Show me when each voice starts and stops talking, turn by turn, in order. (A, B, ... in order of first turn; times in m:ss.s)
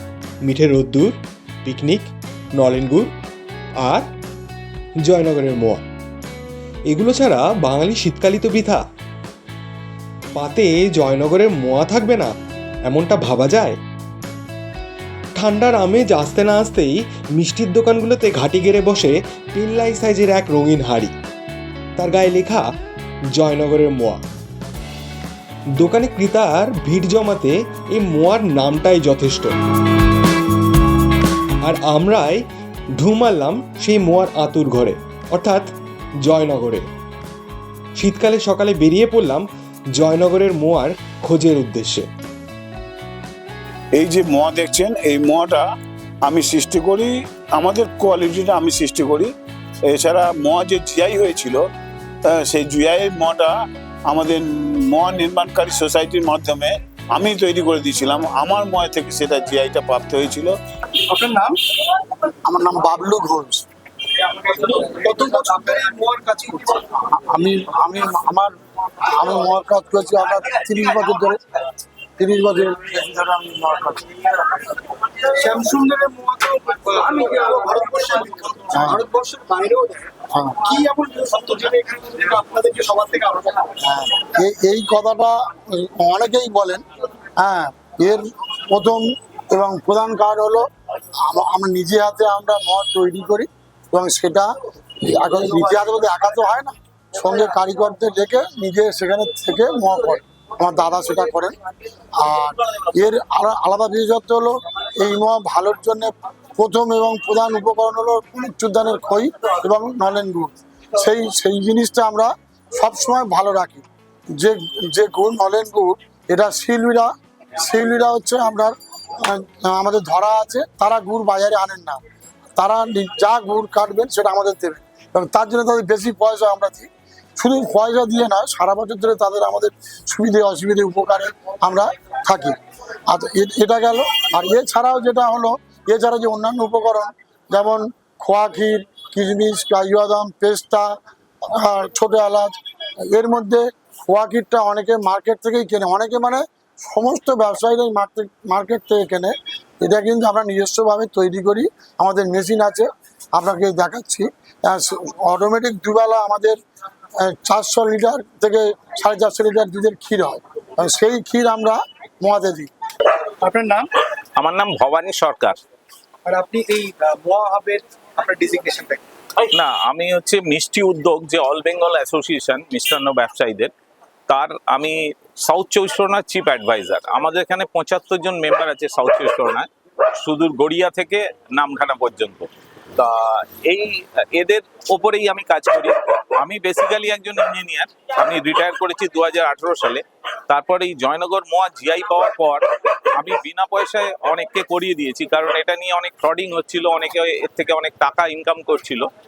0:00.4-0:03.1 A
0:03.8-0:04.1 A
0:05.0-0:05.9 A
0:06.9-0:08.9 A
0:10.3-0:13.8 A
0:15.4-0:21.1 A
0:22.0-0:22.8 A
0:23.3-0:24.2 A
0:25.8-0:29.6 A
0:31.6-0:36.9 A
0:38.0-0:42.1 A
0:44.0-0:45.6 B
0:46.2-0:49.3 B
0:49.8-0:51.7 B
0:52.3-0:53.5 B
0:54.1-1:00.6 B
1:01.1-1:01.6 C
1:02.5-1:03.7 D
1:04.5-1:06.9 C
1:07.1-1:11.4 D
1:12.2-1:14.2 D
1:15.2-1:20.0 C
1:18.7-1:19.0 D
1:20.4-1:20.6 D
1:20.6-1:23.7 C
1:23.9-1:26.8 D
1:27.4-1:30.6 D
1:31.2-1:34.5 D
1:35.1-1:41.6 D
1:42.2-1:53.8 D
1:54.4-1:57.1 D
1:57.6-2:02.0 D
2:02.6-2:12.6 D
2:13.1-2:20.9 D
2:21.5-2:22.5 D
2:23.1-2:36.6 D
2:37.2-2:42.7 D
2:43.4-2:43.9 C
2:44.4-2:45.6 E
2:46.3-2:49.0 C
2:49.5-2:53.7 E
2:54.3-2:59.7 E
3:00.2-3:12.6 E
3:13.2-3:19.1 E